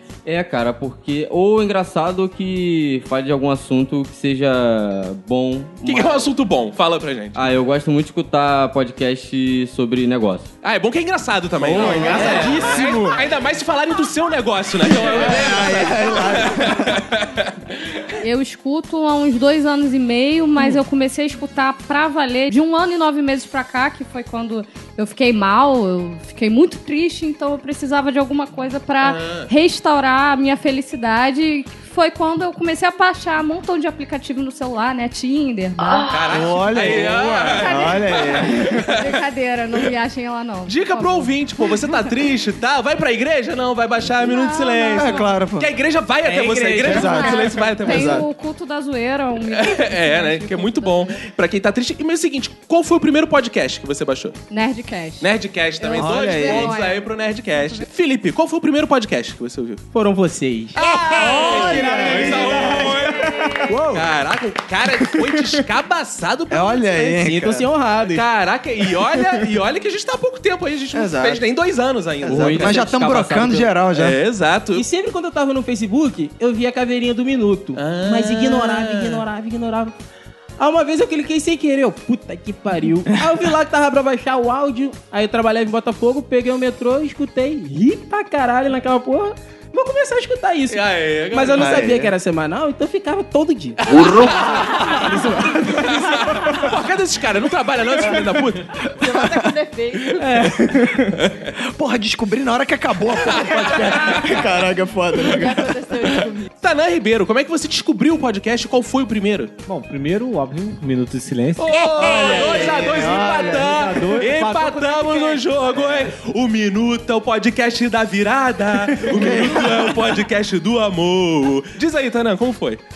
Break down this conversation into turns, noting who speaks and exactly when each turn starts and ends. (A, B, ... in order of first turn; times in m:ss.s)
0:00.2-0:06.3 A
0:05.8-0:07.4 B
0:07.3-0:10.5 A
0:10.6-0:17.5 B
0:11.6-0:12.8 A
0:11.6-0:13.2 C
0:11.8-0:12.0 D
0:15.1-0:17.0 D
0:18.2-0:36.2 E
0:29.0-0:29.5 B
0:35.8-0:36.3 F
0:36.1-0:39.1 B
0:36.3-0:38.8 D
0:37.3-0:41.9 E
0:40.6-0:48.2 B
0:44.2-0:45.3 E
0:44.9-0:45.7 D
0:46.2-0:47.6 C
0:46.8-0:48.2 D
0:46.9-0:51.2 E
0:49.4-0:54.4 B
0:54.5-0:55.2 E
0:55.2-0:59.8 B
0:55.8-0:57.8 E
0:56.0-0:56.7 D
0:59.9-1:03.6 C
1:00.8-1:07.2 B
1:01.3-1:02.7 D
1:03.6-1:04.1 D
1:06.5-1:07.7 D
1:07.2-1:08.2 C
1:08.0-1:12.9 B
1:10.9-1:11.4 D
1:12.2-1:14.2 D
1:12.2-1:13.7 A
1:13.9-1:14.8 B
1:14.7-1:19.9 C
1:17.8-1:19.2 B
1:20.6-1:36.4 C
1:23.2-1:23.4 D
1:30.7-1:31.9 B
1:31.6-1:32.1 D
1:33.8-1:38.8 B
1:39.0-1:40.4 F
1:40.2-1:41.2 C
1:41.2-1:41.5 B
1:41.6-1:45.7 D
1:43.3-1:44.2 B
1:45.2-1:46.5 F
1:46.6-1:49.5 B
1:49.6-1:51.8 G
1:51.6-2:02.8 B
1:52.0-1:53.9 D
1:52.8-1:55.5 G
1:55.8-1:56.1 D
1:59.1-2:00.0 D